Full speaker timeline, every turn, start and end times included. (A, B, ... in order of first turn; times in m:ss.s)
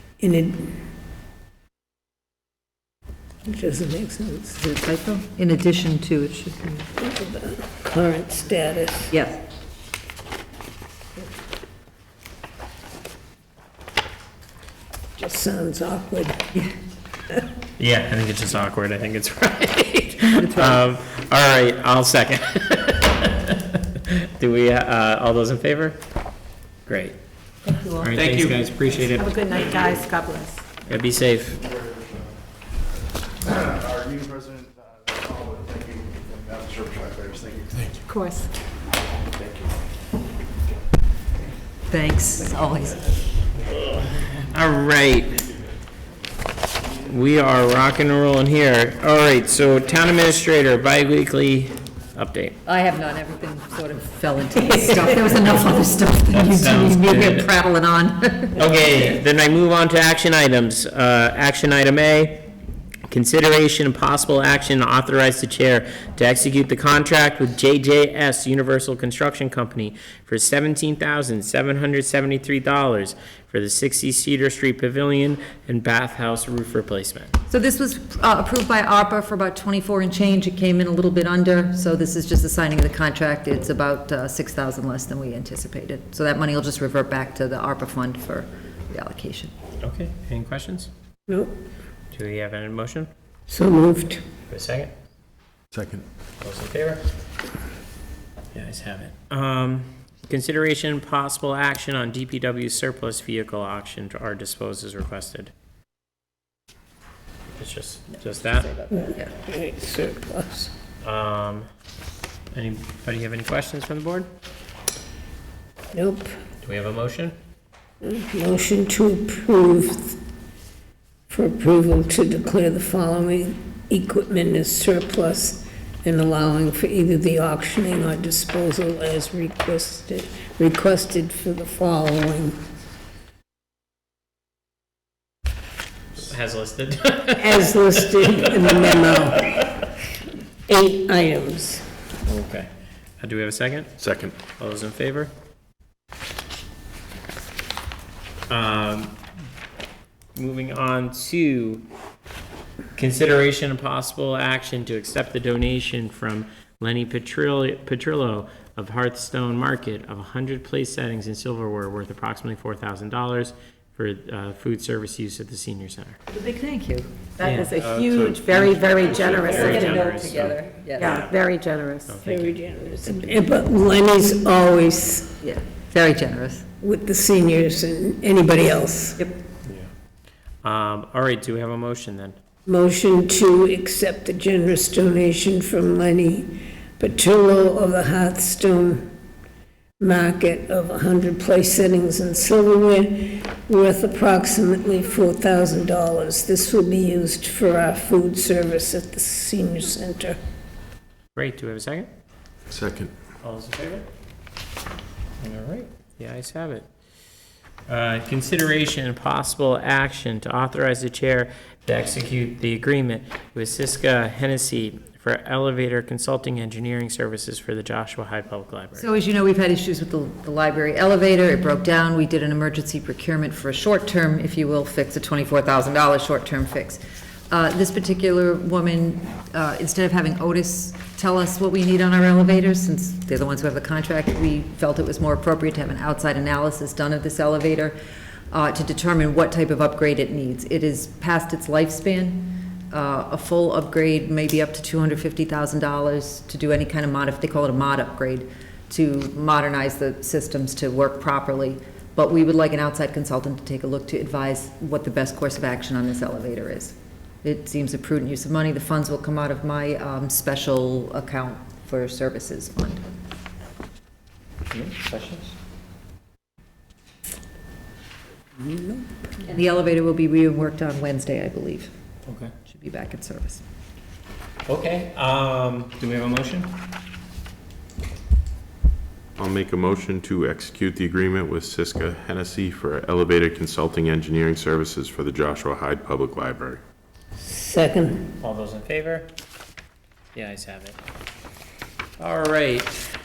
0:00.2-0:00.8 A
0:03.4-0:04.6 A
0:04.6-0:06.8 B
0:06.9-0:09.1 A
0:09.1-0:09.4 B
0:15.2-0:16.4 A
0:17.8-0:26.0 C
0:20.4-0:20.8 B
0:26.9-0:27.2 C
0:28.0-0:29.4 C
0:28.2-0:28.5 D
0:29.1-0:30.6 E
0:30.9-0:31.6 C
0:33.5-0:34.7 F
0:35.2-0:37.8 F
0:38.1-0:38.5 E
0:41.9-0:43.0 B
0:43.9-0:45.4 C
0:47.0-0:52.6 C
0:52.6-0:58.6 B
0:56.3-0:57.5 C
0:58.5-1:02.4 C
1:03.1-1:17.4 C
1:17.5-1:29.5 B
1:29.8-1:30.9 C
1:31.3-1:31.6 A
1:32.1-1:33.1 C
1:33.5-1:34.2 A
1:34.5-1:34.9 C
1:35.7-1:36.0 D
1:36.4-1:37.0 C
1:38.5-1:45.5 C
1:47.6-1:48.7 C
1:48.4-1:49.2 B
1:48.9-1:50.7 A
1:51.0-1:51.6 C
1:52.5-1:54.3 C
1:55.9-1:56.3 A
1:56.6-1:57.3 C
1:58.0-2:00.2 A
2:01.3-2:12.6 A
2:16.2-2:17.7 C
2:17.4-2:19.6 A
2:20.7-2:21.8 A
2:22.2-2:22.7 C
2:23.2-2:24.0 C
2:24.0-2:24.4 D
2:24.5-2:25.3 C
2:28.5-2:29.1 C
2:30.4-2:31.8 C
2:33.0-2:46.2 C
2:46.3-2:47.1 B
2:47.4-2:50.2 E
2:47.4-2:47.7 C
2:47.7-2:49.6 D
2:49.0-2:51.3 B
2:49.3-2:51.3 C
2:51.0-2:52.2 E
2:52.0-2:52.5 C
2:52.2-2:55.3 A
2:55.4-2:56.6 B
2:56.8-2:59.2 A
3:00.6-3:02.4 C
3:02.6-3:09.1 A
3:10.0-3:20.4 A
3:21.3-3:22.1 C
3:22.7-3:23.1 D
3:23.4-3:24.0 C
3:25.4-3:26.9 C
3:27.9-3:39.0 C
3:39.0-3:58.0 B
3:58.5-4:23.0 B
4:24.7-4:25.5 C
4:28.6-4:29.0 A
4:29.4-4:31.9 B
4:32.2-4:32.5 C
4:32.7-4:33.6 B
4:34.7-4:36.7 C
4:39.4-4:46.8 D
4:47.4-4:48.2 A
4:48.4-4:49.3 C
4:50.3-4:51.0 C
4:52.2-4:53.0 C